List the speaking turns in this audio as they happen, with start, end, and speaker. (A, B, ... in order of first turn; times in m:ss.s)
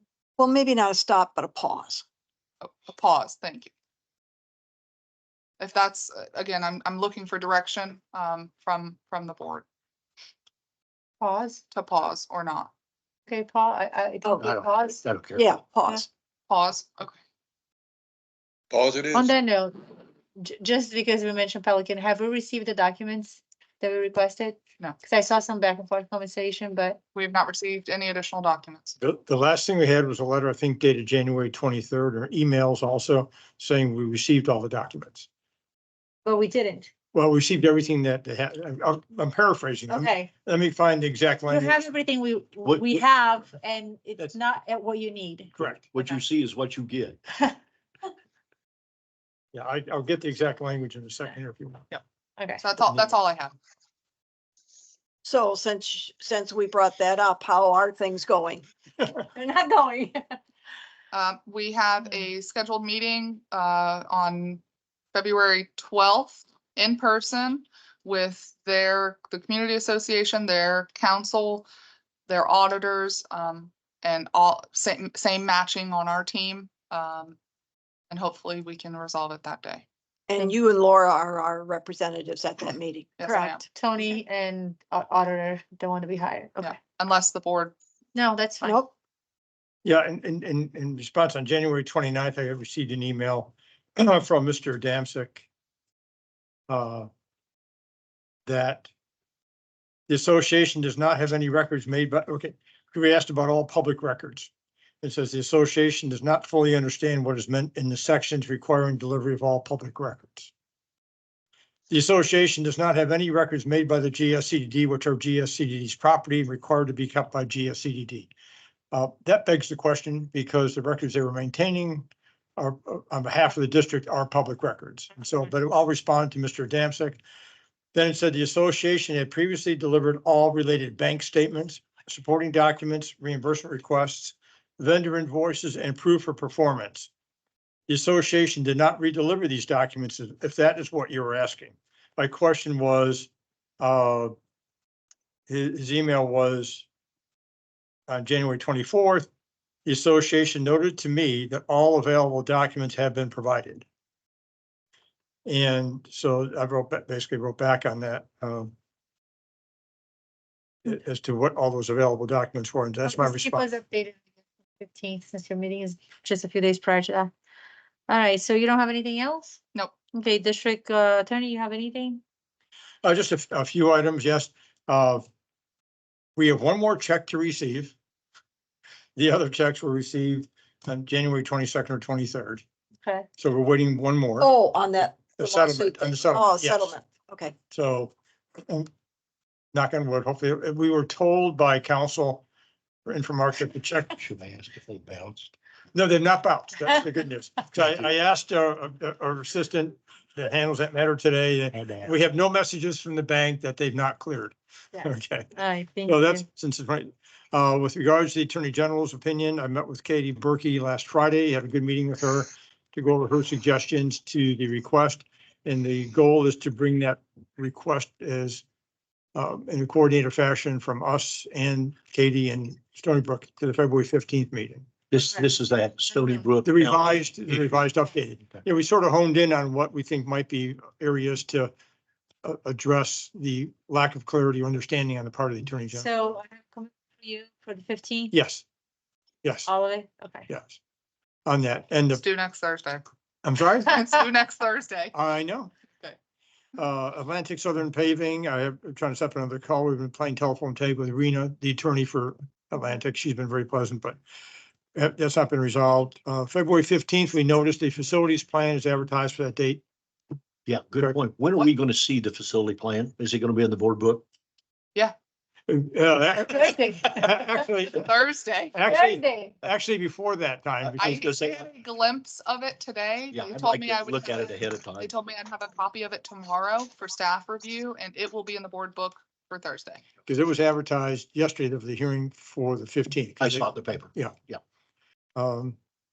0:00.4-0:02.0 A
0:02.6-0:03.7 B
0:05.6-0:09.7 B
0:11.2-0:11.6 C
0:11.7-0:12.7 B
0:13.3-0:15.0 C
0:14.2-0:14.5 A
0:14.4-0:15.6 D
0:15.4-0:16.1 A
0:16.5-0:17.2 B
0:19.1-0:19.8 C
0:20.4-0:27.0 C
0:27.1-0:29.0 B
0:29.0-0:35.3 E
0:36.2-0:36.9 C
0:37.1-0:41.8 E
0:39.9-0:40.3 C
0:41.5-0:46.1 C
0:42.6-0:43.0 D
0:45.6-0:45.9 E
0:45.9-0:47.2 D
0:49.5-0:51.9 E
0:52.4-0:52.6 C
0:52.6-0:53.6 B
0:55.2-0:58.6 A
0:59.3-1:00.4 C
1:01.1-1:04.6 B
1:05.1-1:11.7 B
1:12.3-1:17.4 B
1:18.1-1:19.8 B
1:20.3-1:23.6 A
1:23.2-1:23.6 B
1:23.7-1:26.8 C
1:26.6-1:27.7 B
1:28.2-1:28.8 C
1:28.6-1:28.9 A
1:29.8-1:35.5 E
1:36.7-1:37.1 E
1:38.5-1:38.9 E
1:40.1-1:44.5 E
1:45.0-1:50.5 E
1:51.9-1:58.3 E
1:58.9-2:07.2 E
2:07.9-2:17.1 E
2:17.9-2:24.3 E
2:25.5-2:26.9 E
2:28.1-2:29.3 E
2:29.8-2:33.8 E
2:35.5-2:38.7 E
2:40.8-2:43.7 E
2:43.0-2:44.2 C
2:44.8-2:47.3 C
2:48.1-2:49.6 C
2:50.1-2:52.2 C
2:53.0-2:55.3 E
2:56.4-2:58.0 E
2:59.2-3:02.6 E
3:03.4-3:04.5 E
3:04.4-3:07.5 A
3:05.4-3:07.0 E
3:07.7-3:08.1 E
3:09.7-3:12.4 E
3:13.1-3:14.2 E
3:14.2-3:15.5 D
3:15.9-3:25.5 E
3:21.7-3:22.2 D
3:25.0-3:26.4 C
3:26.0-3:38.6 E
3:39.4-3:44.9 E
3:45.1-3:47.8 D
3:46.6-3:51.7 E
3:52.4-3:56.1 E
3:55.9-3:58.4 C
3:58.3-3:58.6 E
3:59.4-3:59.7 E
3:59.7-4:00.5 C
4:00.5-4:00.8 E
4:01.5-4:02.2 E
4:02.1-4:03.1 B
4:03.4-4:04.0 E
4:03.9-4:05.1 B
4:05.1-4:05.7 E
4:06.8-4:14.2 E
4:15.0-4:19.8 E
4:20.7-4:24.2 D
4:25.7-4:28.1 E
4:26.4-4:27.6 C
4:28.0-4:28.8 B
4:28.7-4:31.3 E
4:28.9-4:29.5 C
4:30.8-4:31.7 D
4:31.0-4:40.0 B
4:33.3-4:35.1 D
4:40.3-4:44.4 E
4:43.4-4:44.6 D
4:45.4-4:45.8 E